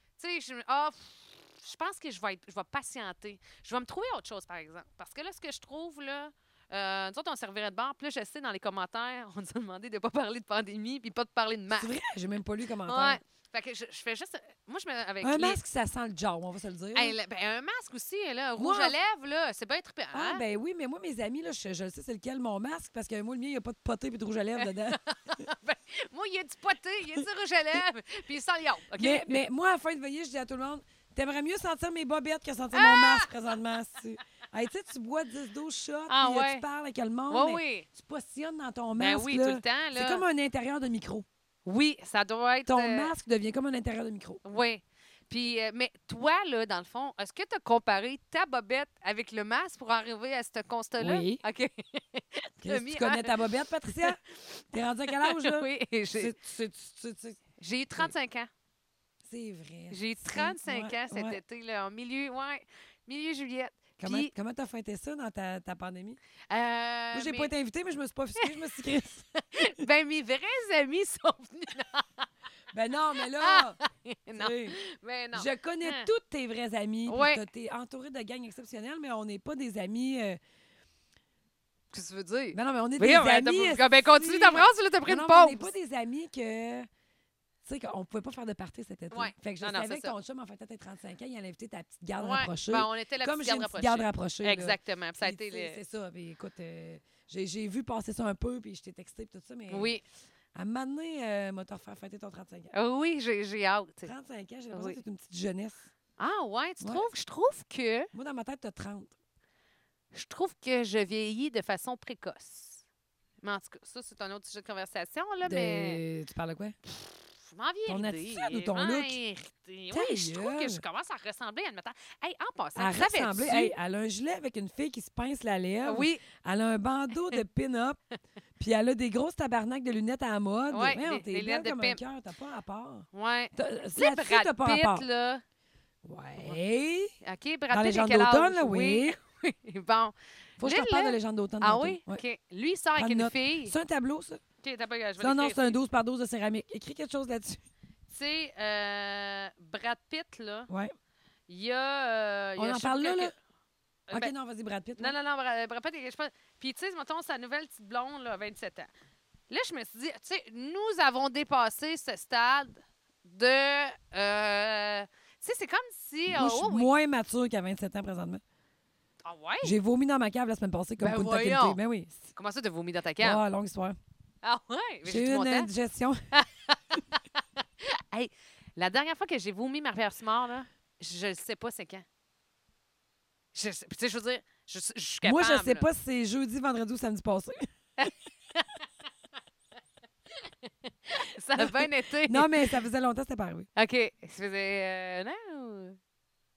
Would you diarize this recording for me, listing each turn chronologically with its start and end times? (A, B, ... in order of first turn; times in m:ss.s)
0:00.2-0:11.9 A
0:11.8-0:13.2 B
0:12.9-0:15.6 A
0:15.2-0:17.2 B
0:17.0-0:20.4 A
0:18.6-0:19.0 B
0:20.1-0:25.0 B
0:24.6-0:29.4 A
0:29.0-0:41.3 B
0:32.7-0:33.6 A
0:36.1-0:36.6 A
0:37.3-0:37.9 A
0:39.0-0:40.2 A
0:41.6-0:43.1 A
0:42.7-0:44.4 B
0:44.4-0:53.4 A
0:51.0-0:51.4 B
0:52.6-0:54.2 B
0:53.9-0:56.4 A
0:54.7-0:57.4 B
0:57.6-0:58.5 A
0:59.2-1:01.4 B
0:59.9-1:04.3 A
1:04.0-1:06.2 B
1:06.5-1:07.5 A
1:07.1-1:09.3 B
1:08.4-1:08.8 A
1:09.4-1:12.2 A
1:12.7-1:13.8 B
1:13.2-1:16.1 A
1:14.3-1:14.8 B
1:15.3-1:20.4 B
1:17.1-1:17.4 A
1:21.9-1:25.7 A
1:22.5-1:26.9 B
1:27.6-1:39.9 B
1:29.1-1:30.1 A
1:32.2-1:35.8 A
1:39.7-1:40.0 A
1:40.5-1:42.7 B
1:42.7-1:44.1 A
1:44.0-1:45.9 B
1:44.7-1:45.0 A
1:46.2-1:48.1 A
1:46.8-1:47.1 B
1:48.1-1:49.2 B
1:50.1-1:52.8 A
1:53.4-1:56.0 A
1:55.4-1:56.8 B
1:57.4-2:03.7 A
1:57.9-1:59.2 B
1:59.9-2:00.8 B
2:02.8-2:08.0 B
2:05.8-2:06.2 A
2:08.6-2:15.0 B
2:10.7-2:12.0 A
2:13.1-2:15.4 A
2:16.0-2:17.1 B
2:17.2-2:23.8 A
2:17.7-2:19.2 B
2:20.6-2:22.2 B
2:23.0-2:24.4 B
2:24.6-2:25.8 A
2:25.2-2:27.6 B
2:28.1-2:30.7 A
2:31.5-2:33.3 A
2:32.6-2:33.3 B
2:34.1-2:35.2 B
2:35.0-2:38.9 A
2:39.5-2:46.9 A
2:46.3-2:48.4 B
2:49.2-2:49.8 A
2:49.6-2:52.3 B
2:51.0-2:51.8 A
2:52.4-2:53.4 A
2:53.2-2:54.0 B
2:54.4-2:55.7 A
2:55.0-2:56.2 B
2:56.3-3:02.0 A
3:03.5-3:05.9 A
3:05.2-3:07.7 B
3:08.0-3:08.8 A
3:10.4-3:12.7 A
3:11.6-3:13.7 B
3:13.8-3:16.0 A